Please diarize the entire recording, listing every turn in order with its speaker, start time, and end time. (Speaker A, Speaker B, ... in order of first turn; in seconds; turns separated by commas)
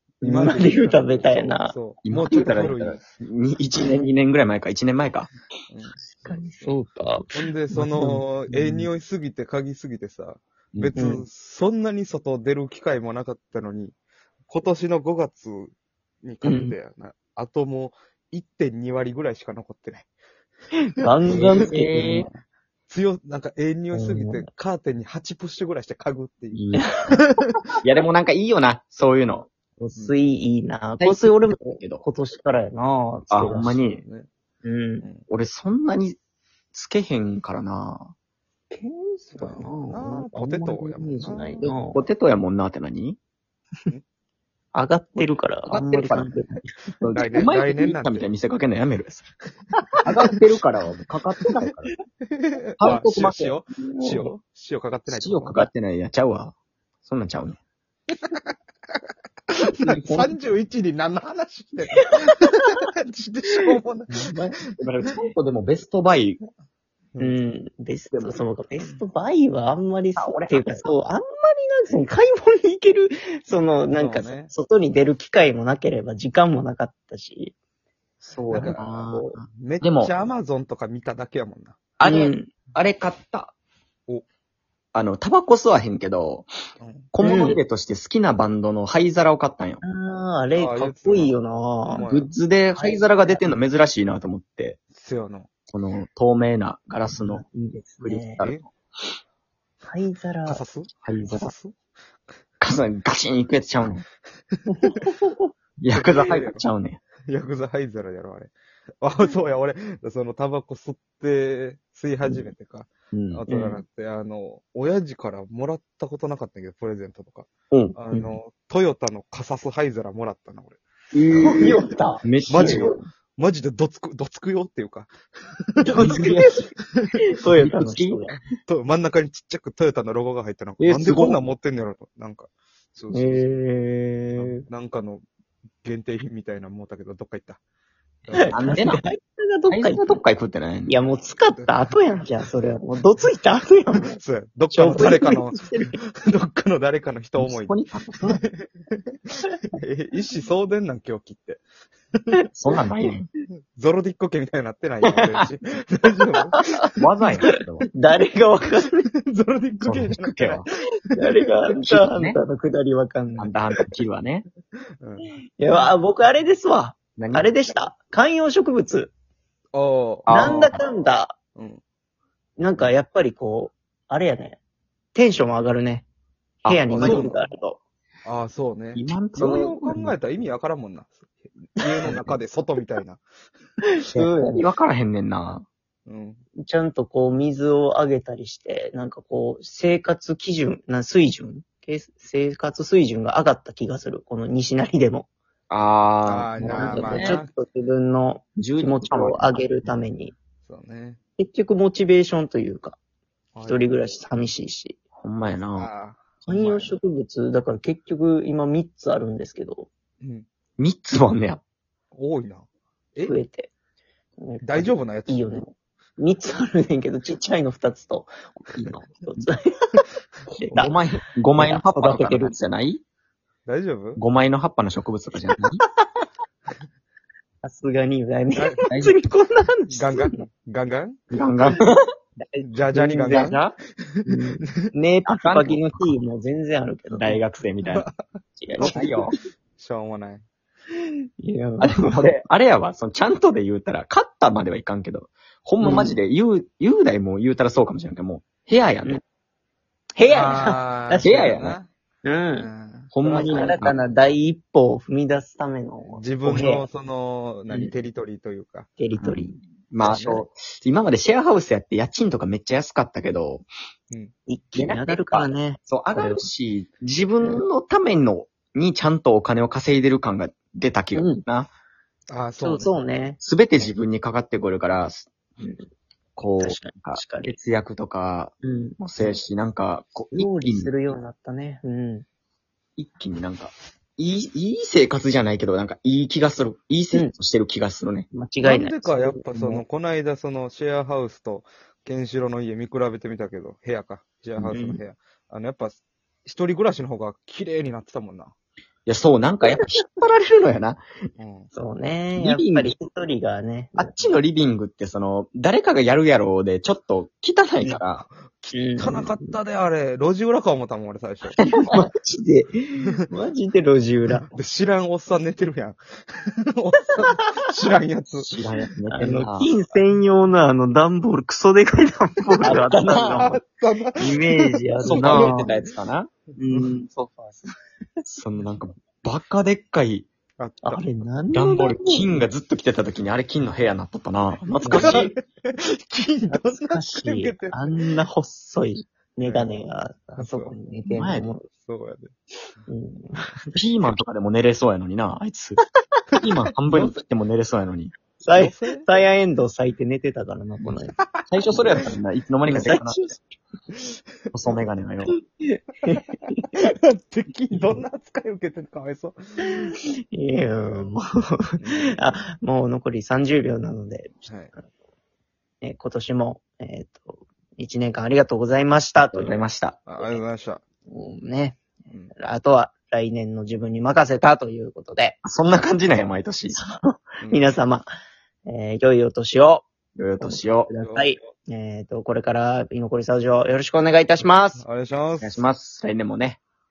Speaker A: 0.2-1.8, Speaker B: 0.2-3.0, Speaker C: 2.0-5.3, Speaker B: 5.7-6.0, Speaker A: 6.1-8.9, Speaker B: 7.3-13.9, Speaker A: 10.9-11.2, Speaker B: 14.5-20.1, Speaker A: 16.4-16.7, Speaker A: 21.0-22.3, Speaker C: 21.3-22.3, Speaker B: 21.3-21.8, Speaker B: 22.9-27.5, Speaker A: 23.9-24.5, Speaker C: 26.5-26.9, Speaker A: 26.8-27.2, Speaker C: 27.8-29.5, Speaker A: 29.8-33.8, Speaker C: 31.0-32.0, Speaker C: 33.3-34.0, Speaker B: 33.6-34.3, Speaker A: 34.6-35.0, Speaker C: 35.3-36.2, Speaker C: 36.7-38.1, Speaker A: 38.7-42.0, Speaker B: 39.3-41.7, Speaker C: 41.6-43.2, Speaker A: 44.7-46.7, Speaker C: 45.6-46.3, Speaker C: 47.0-49.3, Speaker B: 47.1-48.3, Speaker C: 50.0-51.9, Speaker B: 52.3-55.6, Speaker C: 52.8-53.5, Speaker A: 53.8-54.3, Speaker C: 55.1-56.5, Speaker C: 57.0-57.6, Speaker B: 59.8-64.3, Speaker C: 60.0-60.3, Speaker C: 64.2-66.4, Speaker A: 67.2-77.5, Speaker C: 68.1-68.4, Speaker C: 70.2-70.8, Speaker B: 73.9-74.5, Speaker C: 78.2-80.1, Speaker B: 78.5-78.8, Speaker A: 78.5-79.4, Speaker B: 79.6-81.8, Speaker C: 82.0-83.5, Speaker A: 82.0-82.5, Speaker C: 84.9-86.5, Speaker B: 86.8-87.1, Speaker C: 87.1-89.8, Speaker A: 87.2-87.6, Speaker A: 89.8-92.0, Speaker B: 90.5-91.4, Speaker B: 91.9-92.3, Speaker C: 92.0-94.8, Speaker A: 92.7-93.4, Speaker B: 94.9-95.5, Speaker C: 95.7-97.4, Speaker A: 97.1-98.4, Speaker C: 98.0-98.6, Speaker B: 98.4-98.6, Speaker A: 99.8-100.6, Speaker B: 100.5-101.7, Speaker C: 101.0-101.5, Speaker C: 102.6-104.0, Speaker A: 104.8-105.5, Speaker C: 105.8-107.0, Speaker B: 105.9-106.6, Speaker B: 107.3-120.8, Speaker C: 113.1-113.4, Speaker A: 113.5-113.8, Speaker C: 117.7-118.0, Speaker C: 121.1-122.9, Speaker A: 121.3-123.0, Speaker B: 122.5-127.2, Speaker A: 125.8-126.7, Speaker C: 125.9-126.5, Speaker A: 127.3-128.4, Speaker C: 127.6-128.2, Speaker B: 128.7-133.5, Speaker C: 130.8-131.4, Speaker A: 133.1-134.6, Speaker B: 134.3-135.2, Speaker B: 135.8-137.6, Speaker B: 138.2-138.7, Speaker A: 138.3-140.2, Speaker C: 138.3-139.0, Speaker C: 139.7-141.0, Speaker A: 140.9-144.2, Speaker B: 141.5-141.8, Speaker B: 144.1-151.6, Speaker A: 144.7-146.0, Speaker C: 147.4-148.4, Speaker C: 152.6-153.3, Speaker B: 153.7-156.7, Speaker A: 156.5-156.8, Speaker C: 157.0-157.9, Speaker A: 157.9-159.1, Speaker B: 159.3-160.7, Speaker C: 159.8-160.6, Speaker A: 161.1-163.5, Speaker C: 161.7-162.4, Speaker C: 163.4-164.4, Speaker B: 165.0-165.8, Speaker A: 165.6-169.1, Speaker C: 167.2-167.5, Speaker B: 169.7-170.6, Speaker C: 170.3-170.8, Speaker A: 170.3-171.3, Speaker B: 171.6-171.8, Speaker A: 172.6-174.6, Speaker A: 175.1-176.1, Speaker C: 176.6-177.3, Speaker A: 176.6-177.8, Speaker B: 176.9-177.3, Speaker B: 178.2-183.2, Speaker C: 178.9-180.1, Speaker A: 184.0-184.7, Speaker C: 184.1-185.6, Speaker B: 186.1-186.4, Speaker A: 186.6-195.3, Speaker C: 195.7-197.4, Speaker B: 196.2-197.5, Speaker A: 196.6-200.3, Speaker C: 198.6-199.9, Speaker B: 200.6-201.2, Speaker A: 201.4-203.0, Speaker B: 203.5-204.0, Speaker A: 203.6-205.0, Speaker C: 205.2-205.9, Speaker B: 205.4-206.9, Speaker A: 206.5-209.9, Speaker B: 210.2-210.5, Speaker C: 210.8-211.6, Speaker B: 212.1-213.3, Speaker A: 213.2-213.7, Speaker A: 214.4-220.1, Speaker B: 214.6-215.6, Speaker A: 220.6-220.9, Speaker C: 220.7-223.0, Speaker A: 221.6-222.6, Speaker B: 223.7-224.2, Speaker C: 224.2-225.8, Speaker A: 227.6-230.4, Speaker B: 228.6-228.8, Speaker C: 228.9-229.2, Speaker B: 229.9-231.2, Speaker C: 231.3-232.0, Speaker A: 232.4-233.6, Speaker B: 232.6-233.6, Speaker C: 233.3-233.8, Speaker B: 234.1-234.9, Speaker A: 234.2-237.4, Speaker C: 235.2-236.0, Speaker C: 237.1-238.1, Speaker A: 238.6-239.3, Speaker B: 238.7-239.2, Speaker C: 238.8-239.3, Speaker B: 239.8-240.4, Speaker A: 241.4-242.3, Speaker C: 241.8-249.2, Speaker A: 245.8-246.2, Speaker A: 250.2-251.3, Speaker B: 250.2-251.9, Speaker C: 251.2-251.8, Speaker A: 252.2-252.7, Speaker B: 252.5-253.8, Speaker C: 253.1-254.0, Speaker A: 253.3-256.9, Speaker B: 256.1-258.9, Speaker A: 259.0-259.6, Speaker C: 259.2-263.7, Speaker B: 260.0-260.4, Speaker A: 264.5-266.4, Speaker C: 264.7-271.7, Speaker A: 271.1-271.4, Speaker B: 272.3-272.9, Speaker A: 272.6-273.4, Speaker C: 273.4-275.3, Speaker C: 276.4-280.9, Speaker A: 276.6-277.6, Speaker A: 278.6-279.4, Speaker A: 280.3-282.2, Speaker C: 283.0-288.3, Speaker A: 288.3-289.8, Speaker B: 288.6-298.5, Speaker A: 294.7-295.0, Speaker C: 299.1-301.0, Speaker B: 301.4-301.7, Speaker A: 301.7-304.3, Speaker C: 302.4-302.9, Speaker C: 304.0-308.2, Speaker B: 307.8-311.7, Speaker A: 308.7-309.6, Speaker C: 311.6-312.0, Speaker A: 311.9-312.7, Speaker A: 313.3-314.5, Speaker B: 314.4-318.5, Speaker A: 317.1-317.4, Speaker C: 318.4-319.7, Speaker A: 319.1-323.6, Speaker C: 322.6-323.5, Speaker B: 322.6-325.6, Speaker C: 324.2-324.4, Speaker A: 324.2-325.7, Speaker C: 325.0-326.3, Speaker A: 326.6-327.7, Speaker B: 326.7-326.9, Speaker C: 328.2-330.3, Speaker B: 330.6-331.1, Speaker A: 330.8-332.3, Speaker C: 331.5-335.3, Speaker A: 334.8-335.3, Speaker B: 334.9-338.2, Speaker A: 336.5-341.7, Speaker B: 339.4-339.7, Speaker B: 340.4-340.7, Speaker C: 341.1-341.5, Speaker B: 341.8-342.3, Speaker A: 342.9-343.8, Speaker C: 343.8-345.8, Speaker C: 346.4-348.1, Speaker B: 346.9-347.2, Speaker A: 348.4-351.2, Speaker B: 348.5-349.1, Speaker C: 351.5-353.3, Speaker A: 351.7-352.0, Speaker A: 352.6-353.4, Speaker C: 354.5-355.3, Speaker A: 355.3-356.8, Speaker B: 356.7-359.9, Speaker A: 359.6-364.5, Speaker B: 361.8-362.3, Speaker B: 364.5-364.7, Speaker A: 365.8-369.6, Speaker C: 369.3-370.0, Speaker B: 370.1-370.8, Speaker A: 371.1-375.4, Speaker C: 375.4-376.8, Speaker A: 376.7-378.1, Speaker B: 377.4-377.6, Speaker A: 378.6-379.9, Speaker C: 380.1-380.9, Speaker A: 380.4-384.8, Speaker B: 381.0-381.3, Speaker B: 384.8-385.6, Speaker C: 385.4-386.6